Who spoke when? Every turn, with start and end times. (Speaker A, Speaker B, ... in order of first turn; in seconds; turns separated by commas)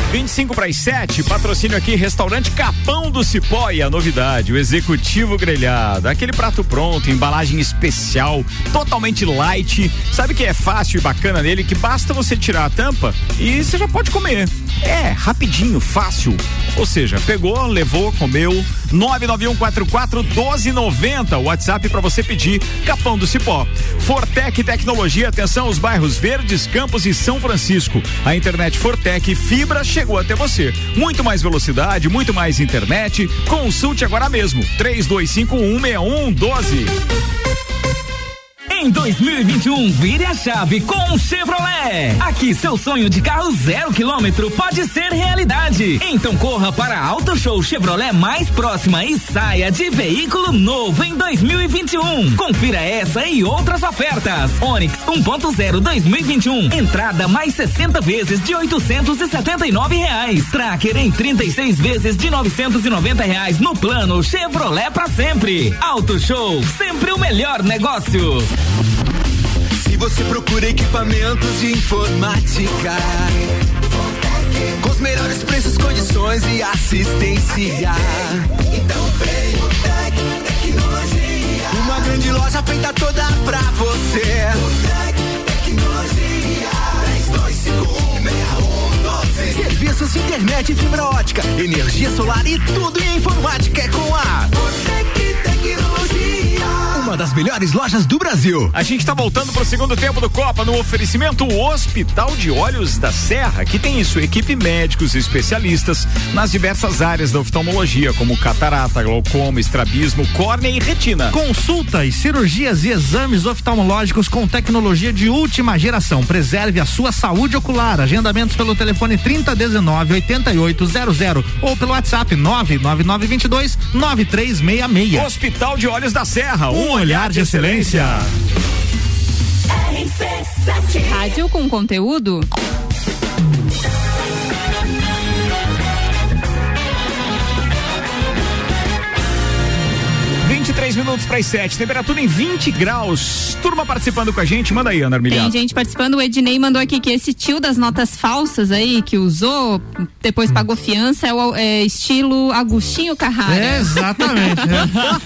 Speaker A: 0.1-36.9, Speaker B: 38.7-68.5, Speaker C: 69.8-73.4, Speaker C: 74.8-98.7, Speaker A: 98.7-111.4, Speaker D: 111.3-125.3, Speaker A: 125.1-128.3, Speaker D: 126.7-128.3, Speaker E: 131.0-132.5, Speaker A: 140.4-145.5, Speaker E: 145.3-154.8, Speaker D: 153.5-155.1